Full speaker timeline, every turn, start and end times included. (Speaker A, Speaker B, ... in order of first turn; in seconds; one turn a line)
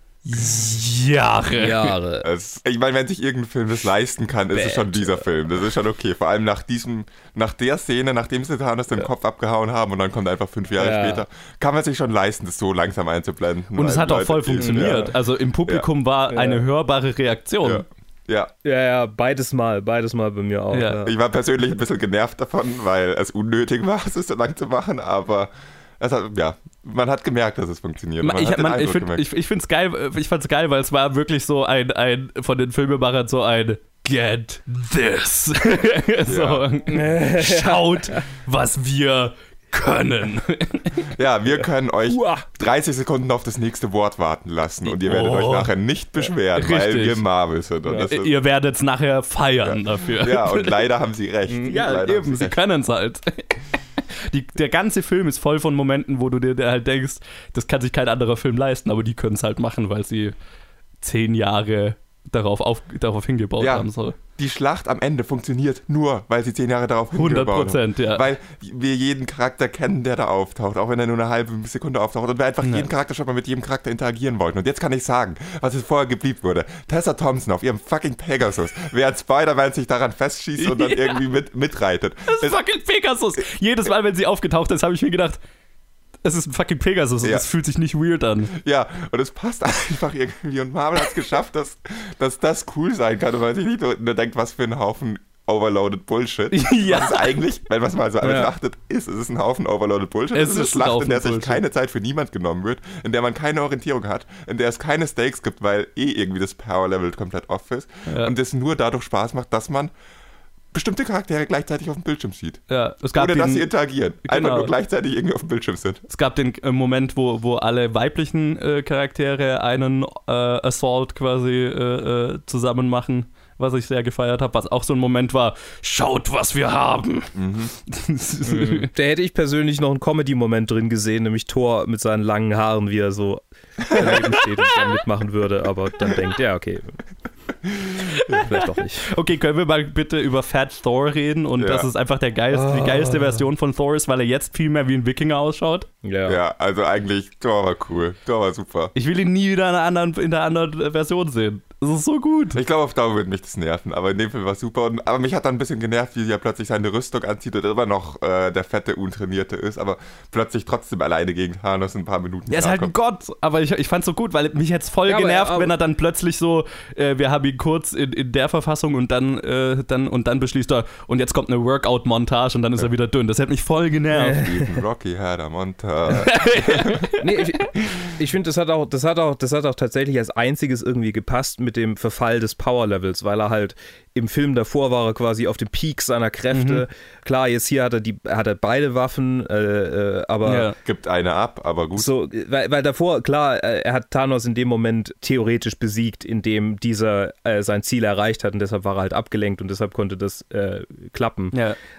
Speaker A: 0.2-2.0
Speaker B: 1.6-2.3
Speaker C: 2.2-15.1
Speaker B: 4.5-5.2
Speaker B: 10.8-11.2
Speaker A: 13.8-17.9
Speaker B: 14.6-15.1
Speaker B: 16.3-16.7
Speaker C: 17.6-18.5
Speaker B: 18.6-21.1
Speaker A: 20.7-21.0
Speaker C: 21.0-29.2
Speaker A: 28.2-41.1
Speaker C: 36.3-36.7
Speaker B: 36.9-38.3
Speaker C: 41.1-48.3
Speaker B: 41.6-42.5
Speaker A: 44.9-45.7
Speaker A: 46.5-47.2
Speaker B: 47.9-48.1
Speaker A: 48.0-50.8
Speaker C: 49.6-52.6
Speaker B: 51.5-51.8
Speaker A: 51.7-60.3
Speaker A: 61.0-64.2
Speaker C: 63.6-82.6
Speaker A: 67.1-68.3
Speaker A: 72.6-72.9
Speaker A: 80.6-81.2
Speaker A: 82.3-85.4
Speaker A: 86.2-88.5
Speaker C: 88.5-109.9
Speaker A: 96.5-97.3
Speaker B: 98.2-98.5
Speaker A: 100.3-101.6
Speaker A: 108.1-108.3
Speaker C: 110.7-112.6
Speaker A: 112.7-113.7
Speaker C: 113.1-116.0
Speaker A: 114.2-114.7
Speaker A: 116.1-127.3
Speaker C: 127.3-127.7
Speaker A: 127.9-128.9
Speaker B: 128.5-137.0
Speaker A: 138.2-145.9
Speaker B: 138.4-139.1
Speaker C: 141.6-141.9
Speaker B: 142.5-143.5
Speaker B: 146.0-146.4
Speaker C: 146.3-148.9
Speaker A: 148.9-152.6
Speaker C: 152.5-162.9
Speaker A: 162.5-174.5
Speaker B: 165.1-165.7
Speaker B: 174.2-174.6
Speaker C: 174.3-177.1
Speaker A: 176.2-177.2
Speaker B: 177.2-190.7
Speaker C: 177.8-178.1
Speaker A: 186.5-186.8
Speaker A: 190.5-190.8
Speaker C: 190.8-192.1
Speaker B: 192.0-201.6
Speaker A: 201.5-201.8